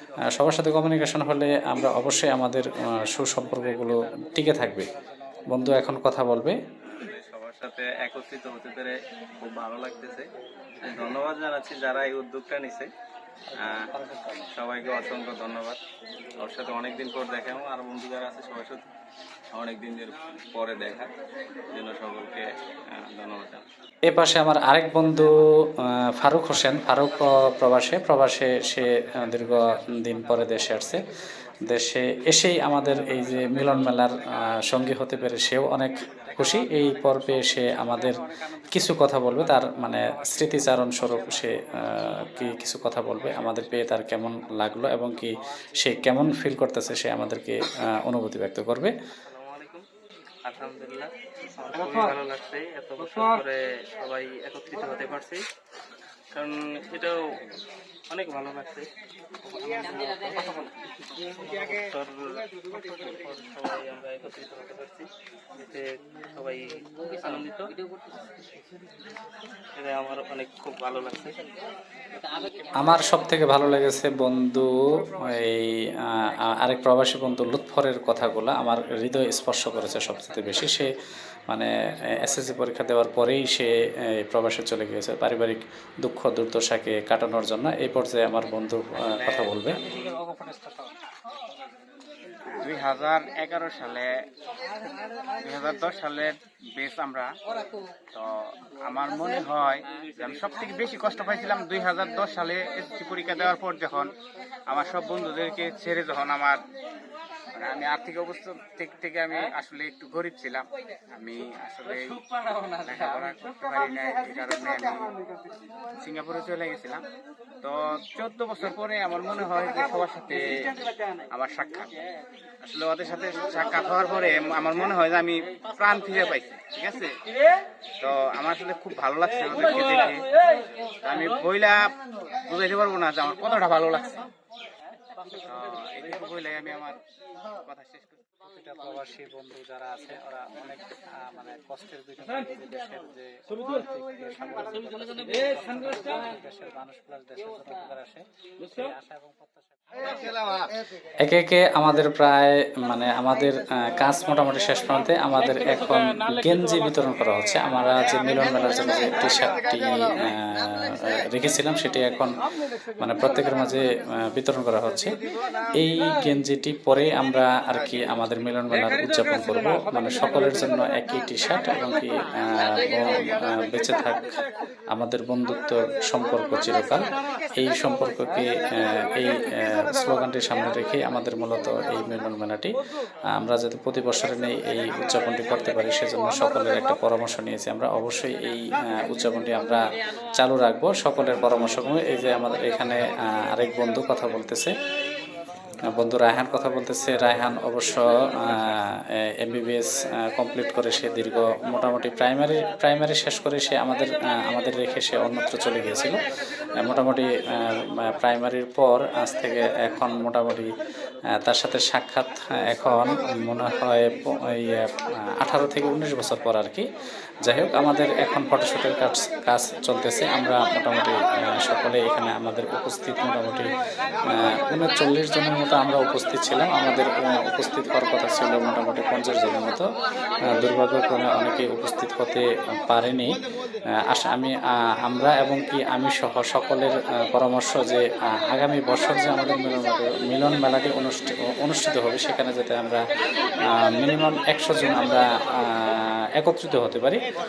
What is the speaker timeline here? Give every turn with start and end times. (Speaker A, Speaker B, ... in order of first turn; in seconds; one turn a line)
Speaker A: 0.2-4.9
Speaker A: 5.5-6.6
Speaker B: 6.8-10.2
Speaker B: 10.8-12.9
Speaker B: 13.6-13.9
Speaker A: 13.8-14.3
Speaker B: 14.5-15.8
Speaker B: 16.4-18.9
Speaker B: 19.5-21.1
Speaker B: 21.7-22.4
Speaker B: 23.0-23.6
Speaker A: 24.1-31.0
Speaker A: 31.6-38.1
Speaker A: 38.7-48.9
Speaker C: 49.2-49.8
Speaker C: 50.5-55.4
Speaker C: 56.3-57.2
Speaker C: 58.1-58.9
Speaker C: 59.4-65.1
Speaker C: 65.6-66.7
Speaker C: 67.2-67.7
Speaker C: 69.8-71.4
Speaker A: 72.8-75.8
Speaker A: 76.4-80.9
Speaker A: 81.5-89.8
Speaker D: 89.0-90.2
Speaker A: 90.5-90.7
Speaker D: 92.6-94.1
Speaker D: 95.4-97.3
Speaker D: 98.8-104.1
Speaker D: 104.7-106.6
Speaker D: 107.5-112.2
Speaker D: 112.8-115.1
Speaker D: 116.0-117.0
Speaker D: 117.6-120.5
Speaker D: 121.3-121.9
Speaker D: 122.6-127.1
Speaker D: 128.0-130.2
Speaker D: 131.0-131.8
Speaker D: 132.4-134.3
Speaker D: 135.5-137.0
Speaker D: 137.6-138.2
Speaker A: 138.4-150.0
Speaker A: 151.2-162.3
Speaker A: 163.0-165.2
Speaker A: 165.8-174.3
Speaker A: 174.9-182.8
Speaker A: 183.4-189.8
Speaker A: 190.4-194.7
Speaker A: 195.9-198.8
Speaker A: 199.4-206.2
Speaker A: 206.8-210.7
Speaker A: 211.4-216.8
Speaker A: 217.4-223.7
Speaker A: 224.3-229.9
Speaker A: 230.5-233.4
Speaker A: 234.0-243.0
Speaker A: 243.7-247.2